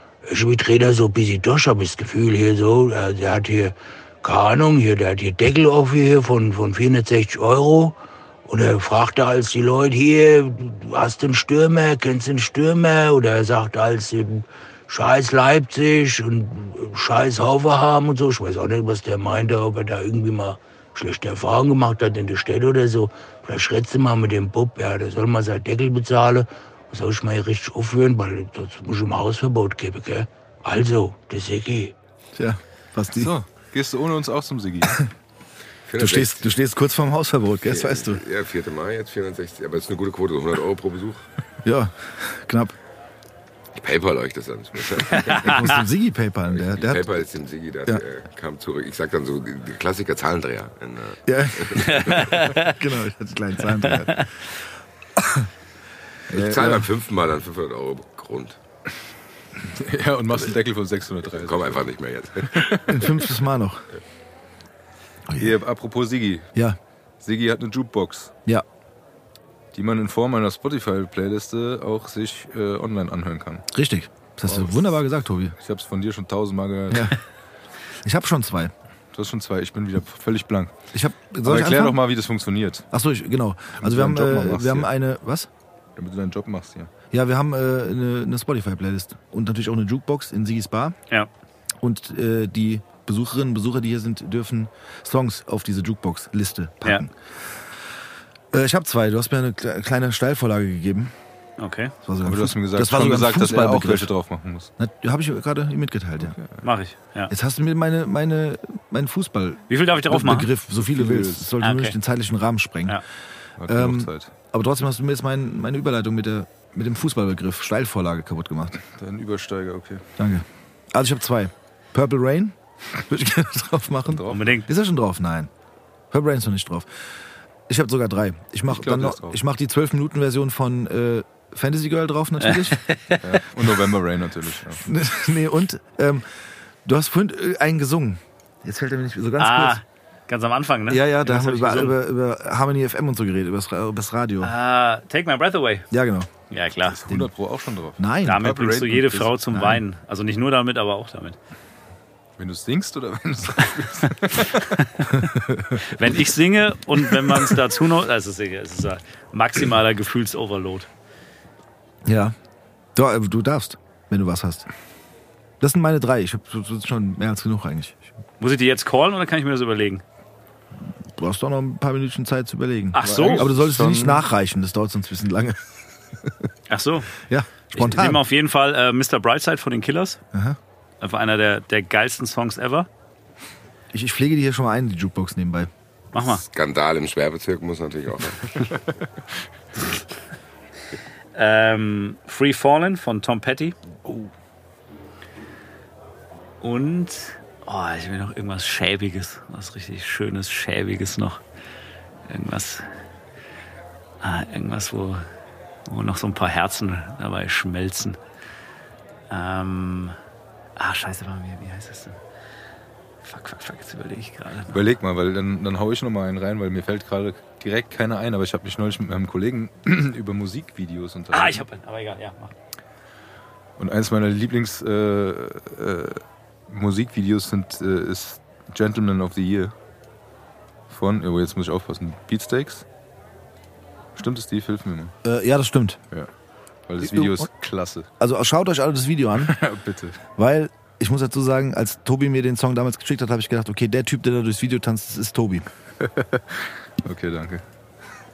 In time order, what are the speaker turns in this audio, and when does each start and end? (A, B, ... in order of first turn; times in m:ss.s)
0:00.2-0:31.9 A
0:32.3-0:33.3 B
0:33.1-0:35.1 C
0:35.9-0:36.5 D
0:36.0-0:38.2 B
0:37.7-0:41.2 D
0:41.6-0:42.7 B
0:43.8-0:45.7 D
0:45.3-0:45.5 E
0:45.3-0:47.2 B
0:46.5-0:52.5 D
0:51.3-0:54.3 B
0:51.8-0:52.8 E
0:53.8-0:54.3 E
0:55.2-0:55.5 B
0:56.3-0:56.8 B
0:56.3-0:58.6 D
0:56.4-0:56.7 C
0:59.7-1:01.9 C
1:01.2-1:03.1 D
1:02.5-1:03.1 C
1:02.9-1:03.8 B
1:05.4-1:06.5 C
1:07.2-1:08.3 C
1:09.7-1:13.6 C
1:13.7-1:15.5 B
1:14.4-1:14.8 C
1:15.6-1:17.1 C
1:16.9-1:17.2 B
1:18.0-1:18.7 B
1:19.1-1:20.7 C
1:20.9-1:22.0 B
1:21.4-1:22.8 C
1:22.9-1:25.5 B
1:23.8-1:24.9 C
1:26.0-1:26.9 C
1:27.1-1:31.0 B
1:31.8-1:37.3 B
1:38.5-1:41.1 B
1:41.6-1:41.9 E
1:42.0-1:44.1 B
1:42.2-1:44.7 C
1:44.8-1:46.4 B
1:46.2-1:46.6 C
1:46.6-1:47.3 E
1:47.3-1:53.0 B
1:49.7-1:50.5 E
1:50.8-1:51.5 C
1:51.6-1:52.0 E
1:53.6-1:54.3 C
1:53.7-1:58.8 B
1:58.9-2:00.0 C
2:00.2-2:05.5 B
2:04.1-2:04.4 C
2:04.3-2:04.7 E
2:06.1-2:07.0 B
2:07.7-2:12.8 B
2:08.7-2:09.4 C
2:12.4-2:13.2 E
2:13.2-2:14.9 C
2:14.8-2:16.3 B
2:16.8-2:19.8 B
2:19.4-2:22.0 E
2:20.9-2:24.5 B
2:24.4-2:25.9 E
2:25.9-2:26.3 B
2:26.5-2:27.0 E
2:26.9-2:29.4 C
2:28.0-2:28.4 B
2:28.2-2:31.4 E
2:29.5-2:29.8 B
2:32.4-2:34.8 C
2:34.4-2:35.1 E
2:35.1-2:35.8 B
2:35.8-2:40.9 E
2:42.0-2:42.3 B
2:43.0-2:44.7 B
2:45.6-2:48.0 B
2:48.4-2:50.0 E
2:51.1-2:55.6 B
2:52.9-2:53.5 E
2:53.0-2:54.2 C
2:56.7-2:57.1 E
2:57.2-2:58.2 B
2:57.7-3:00.2 E
3:01.0-3:02.9 E
3:03.9-3:05.7 B
3:06.1-3:06.4 E
3:06.2-3:08.7 D
3:11.3-3:13.7 E
3:16.6-3:21.4 E
3:22.3-3:22.8 E
3:24.2-3:25.2 E
3:25.9-3:28.2 E
3:29.3-3:30.2 E
3:30.8-3:32.2 E
3:33.2-3:34.8 E
3:34.7-3:41.6 C
3:41.3-3:42.5 E
3:43.8-3:49.7 C
3:50.9-3:52.8 C
3:54.2-3:55.1 C
3:55.2-3:56.0 B
3:56.9-3:58.1 C
3:57.0-3:57.5 B
3:58.2-3:59.6 B
3:59.4-4:00.2 C
4:00.4-4:05.7 B
4:06.0-4:07.6 C